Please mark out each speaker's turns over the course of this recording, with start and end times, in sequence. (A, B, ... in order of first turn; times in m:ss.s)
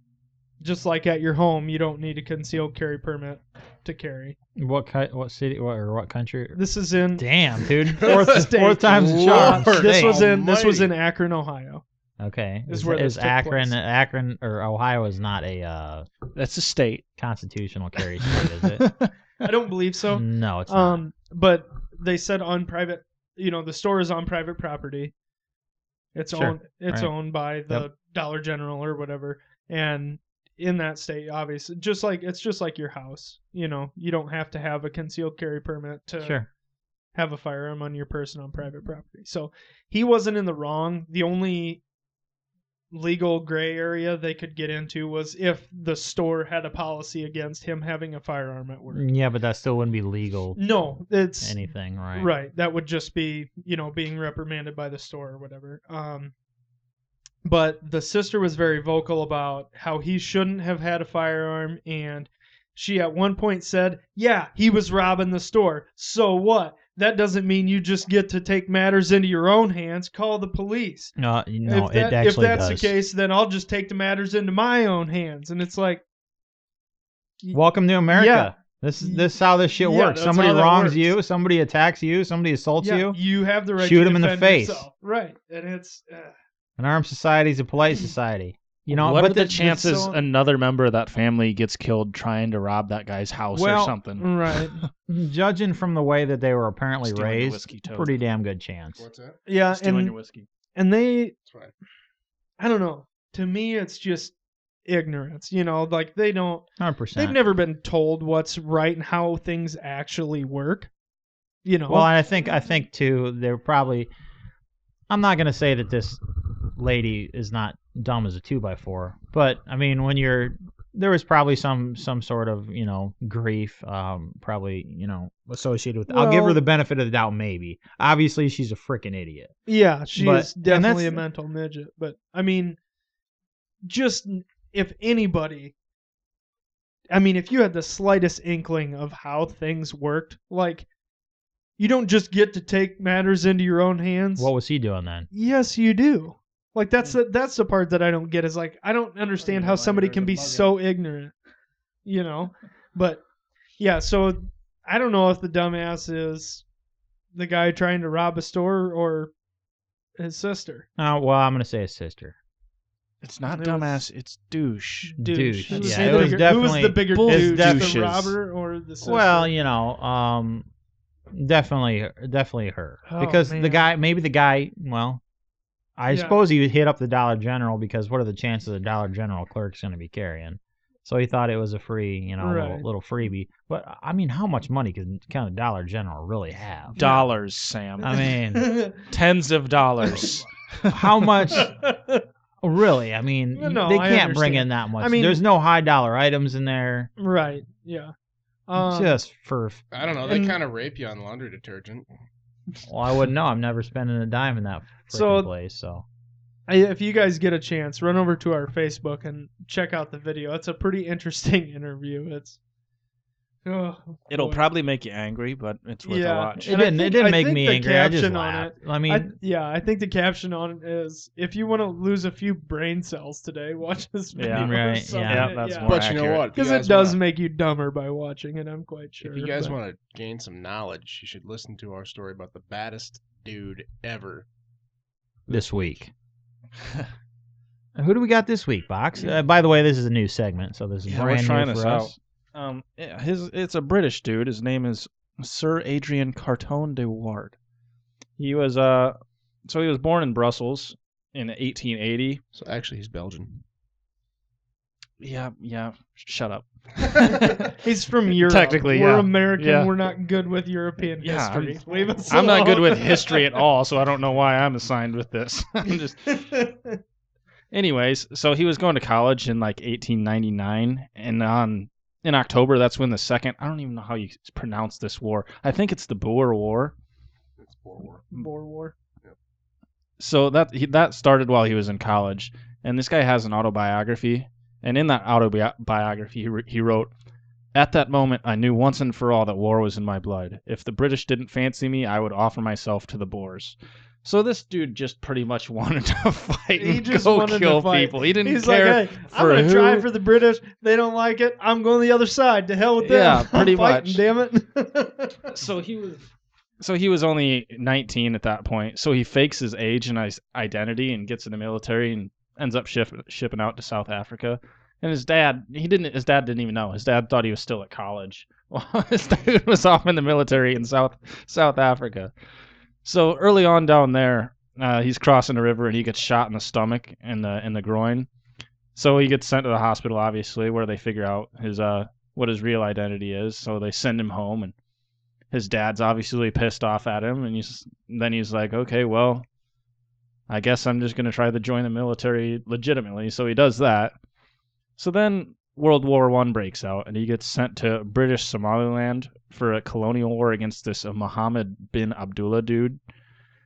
0:00.6-0:04.4 A
0:04.6-0:06.6 B
0:06.5-0:07.3 A
0:07.2-0:10.2 B
0:07.9-0:11.8 A
0:07.9-0:10.9 C
0:12.2-0:16.1 B
0:12.7-0:13.7 A
0:16.3-0:17.0 D
0:17.2-0:18.9 B
0:18.3-0:19.1 D
0:19.4-0:25.1 A
0:20.1-0:21.0 B
0:26.1-0:36.4 A
0:26.3-0:27.1 B
0:36.2-0:36.5 B
0:37.1-0:41.8 A
0:42.9-0:49.0 A
0:48.9-0:50.6 B
0:50.6-0:51.6 A
0:51.4-0:52.3 B
0:52.1-0:56.3 A
0:57.4-1:11.1 A
1:11.2-1:12.9 B
1:11.6-1:16.0 A
1:17.5-1:23.2 B
1:18.1-1:21.1 A
1:22.8-1:26.3 A
1:23.8-1:24.9 B
1:26.8-1:30.1 B
1:28.9-1:34.3 D
1:29.6-1:30.1 A
1:33.5-1:33.9 B
1:34.2-1:34.8 A
1:35.1-1:39.0 B
1:37.0-1:38.1 D
1:39.0-1:39.4 C
1:39.5-1:40.1 A
1:39.7-1:40.5 D
1:40.8-1:41.3 A
1:41.4-1:41.7 C
1:42.6-1:44.3 A
1:44.8-1:50.9 A
1:46.8-1:47.4 B
1:51.6-1:52.1 A
1:51.9-1:54.1 B
1:55.1-2:09.5 B
2:06.1-2:06.6 A
2:09.7-2:12.8 A
2:10.1-2:11.2 B
2:13.8-2:15.7 A
2:17.1-2:20.9 A
2:21.8-2:24.5 A
2:24.4-2:25.3 B
2:25.3-2:31.3 A
2:29.5-2:30.6 D
2:32.0-2:33.2 A
2:33.8-2:36.6 A
2:37.3-2:39.3 A
2:40.2-2:40.8 A
2:41.0-2:42.3 B
2:43.2-2:46.5 D
2:43.5-2:44.0 A
2:45.0-2:49.5 A
2:45.2-2:48.0 B
2:47.1-2:48.3 D
2:49.0-2:50.7 B
2:51.3-2:55.2 B
2:53.0-2:53.8 A
2:56.0-3:07.0 B
2:56.1-2:56.4 A
3:02.4-3:02.8 A
3:07.0-3:07.3 A
3:07.0-3:08.3 D
3:08.0-3:08.8 B
3:08.0-3:09.0 A
3:09.1-3:11.3 D
3:10.9-3:11.7 B
3:11.5-3:12.2 A
3:12.6-3:17.1 B
3:13.5-3:15.4 A
3:17.2-3:18.1 A
3:18.7-3:19.2 A
3:18.8-3:19.8 B
3:19.9-3:22.1 C
3:20.2-3:20.6 A
3:22.8-3:26.0 B
3:25.1-3:25.5 A
3:26.7-3:32.6 A
3:33.6-3:34.6 A
3:34.3-3:36.8 D
3:36.0-3:46.0 A
3:36.6-3:39.4 B
3:44.4-3:46.5 D
3:44.5-3:45.6 B
3:45.8-3:47.2 C
3:46.5-3:49.8 A
3:49.2-3:54.5 C
3:55.5-3:56.1 B
3:58.0-4:02.1 B
4:01.1-4:07.5 D
4:08.4-4:12.4 D
4:12.5-4:13.5 C
4:15.2-4:17.7 D
4:17.2-4:23.5 A
4:18.3-4:19.9 D
4:21.2-4:26.4 D
4:26.3-4:27.0 A
4:27.7-4:36.9 D
4:37.6-4:38.2 C
4:38.3-4:38.9 A
4:40.2-4:47.1 D
4:47.7-5:00.1 D
4:56.8-5:05.5 A
5:03.0-5:04.2 D
5:05.5-5:06.2 D
5:06.8-5:22.3 D
5:23.0-5:28.3 D
5:29.0-5:34.7 D
5:35.5-5:39.4 D
5:40.5-5:44.1 D
5:45.0-5:53.0 D